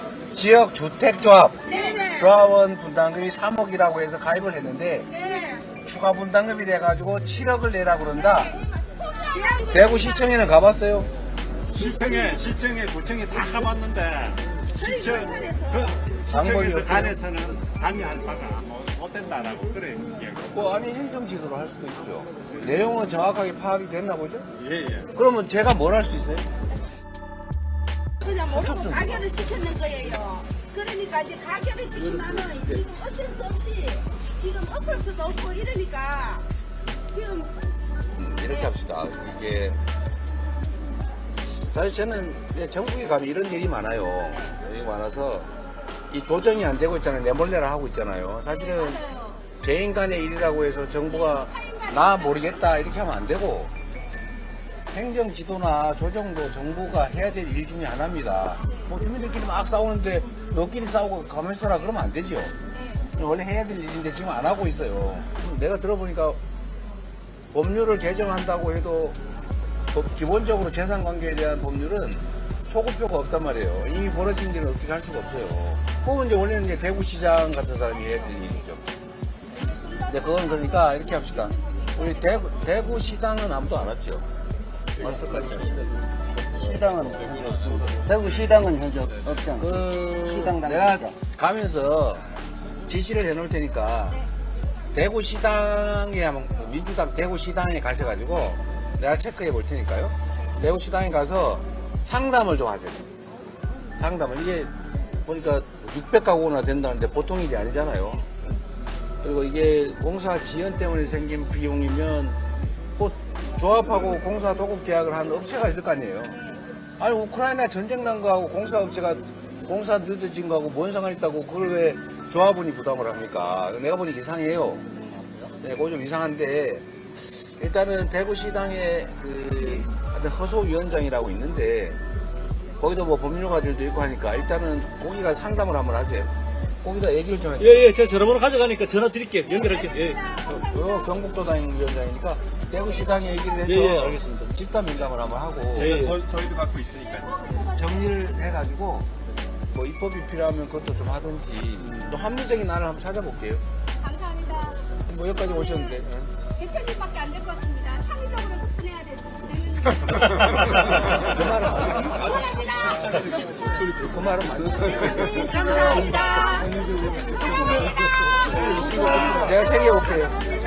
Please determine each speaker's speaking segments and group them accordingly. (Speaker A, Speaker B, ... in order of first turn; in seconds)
Speaker A: 0.3-5.1, 5.8-8.5, 9.7-11.1, 16.3-17.2, 20.5-24.5, 25.1-26.5, 28.4-29.3, 38.1-39.8, 41.4-45.5, 46.1-49.0, 49.6-53.7, 54.9-62.5, 63.1-66.4, 67.5-69.2, 69.9-78.8, 80.0-84.2, 85.0-85.8, 89.5-92.2, 92.8-94.2, 94.9-103.0, 104.0-104.7, 105.2-108.3, 109.2-112.4, 113.0-116.4, 117.0-124.8, 125.6-132.0, 132.8-137.8, 140.4-145.9, 147.7-149.1, 149.7-153.6, 155.0-156.3, 161.1-165.5, 169.3-170.4
Speaker B: 1.7-2.2, 5.2-5.6, 9.3-10.0, 14.7-15.9, 28.2-36.5, 37.1-37.5, 165.3-166.8
Speaker C: 8.5-9.8, 48.8-49.4, 51.3-52.2, 62.7-63.0, 139.8-140.6, 147.2-147.9, 154.0-154.8, 156.6-160.6, 162.2-163.3
Speaker D: 11.7-20.6, 24.5-25.1, 145.8-147.4
Speaker E: 85.0-86.0, 137.6-140.3, 143.6-144.5, 145.8-146.2, 162.3-164.1, 167.2-169.6
Speaker F: 86.5-91.1